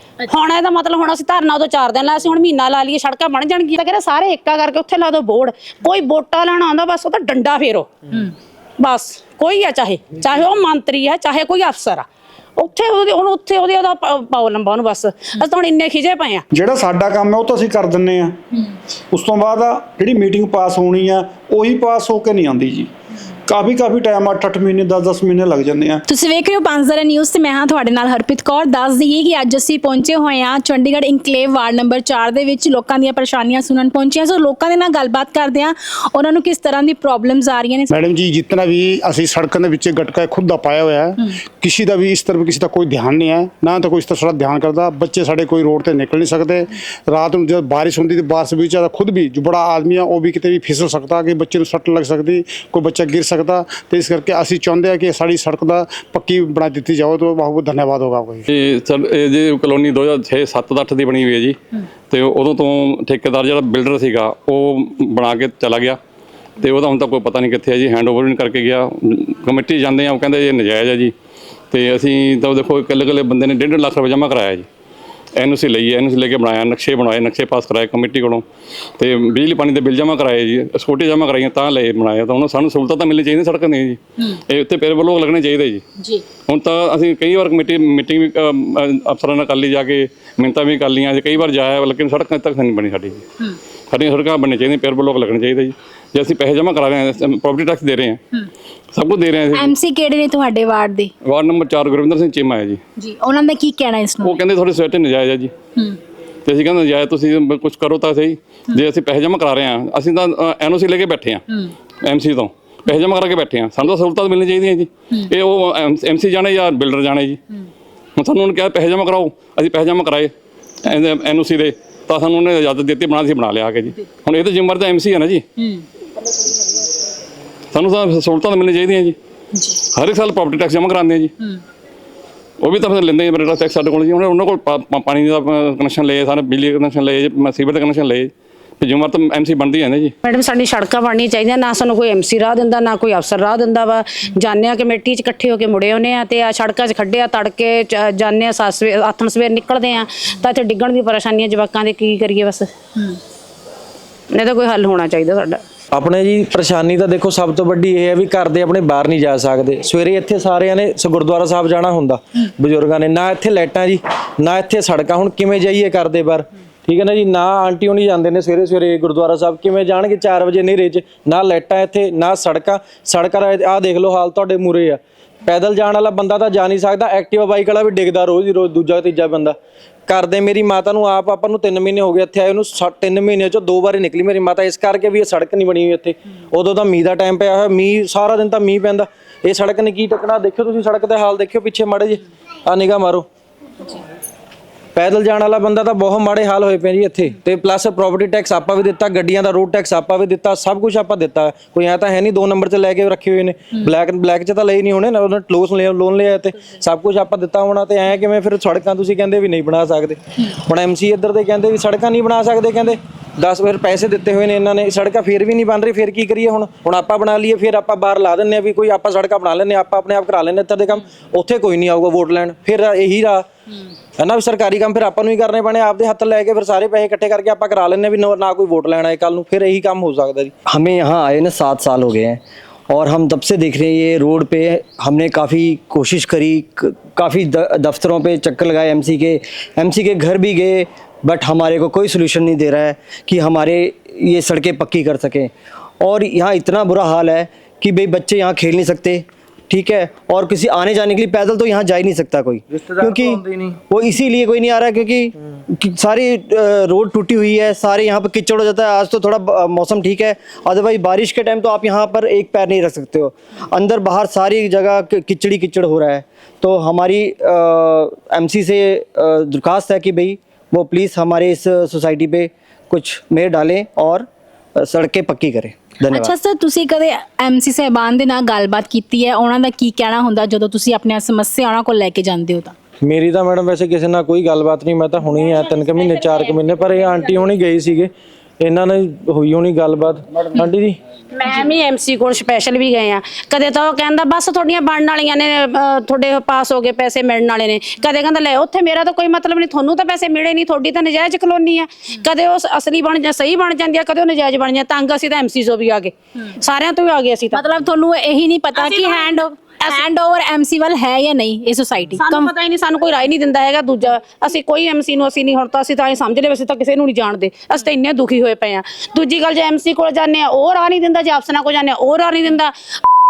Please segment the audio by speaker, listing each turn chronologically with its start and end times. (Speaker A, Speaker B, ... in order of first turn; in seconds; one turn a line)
Speaker A: 0.3-7.9
Speaker A: 8.8-12.0
Speaker A: 12.6-16.4
Speaker B: 16.5-18.4
Speaker B: 19.1-22.9
Speaker B: 23.5-26.0
Speaker C: 26.1-37.9
Speaker D: 37.9-58.5
Speaker E: 58.5-61.6
Speaker E: 62.1-66.0
Speaker E: 66.6-71.1
Speaker E: 71.7-74.7
Speaker E: 75.3-78.4
Speaker E: 79.0-85.8
Speaker E: 86.5-93.2
Speaker E: 93.9-98.2
Speaker E: 98.9-99.7
Speaker C: 99.5-101.1
Speaker E: 101.2-102.8
Speaker C: 103.0-104.4
Speaker E: 104.2-105.5
Speaker E: 106.5-111.4
Speaker E: 112.0-117.4
Speaker E: 118.2-120.3
Speaker E: 120.8-125.4
Speaker C: 125.6-125.8
Speaker E: 127.7-129.2
Speaker E: 129.9-131.3
Speaker E: 132.6-140.1
Speaker A: 140.2-152.7
Speaker A: 154.3-155.6
Speaker F: 155.9-193.2
Speaker F: 194.9-223.5
Speaker F: 224.2-230.5
Speaker G: 230.7-276.3
Speaker F: 253.0-253.7
Speaker C: 276.1-282.7
Speaker F: 283.0-291.0
Speaker A: 285.7-287.3
Speaker A: 291.3-307.6
Speaker C: 307.5-312.5
Speaker A: 308.7-310.0
Speaker A: 312.1-322.7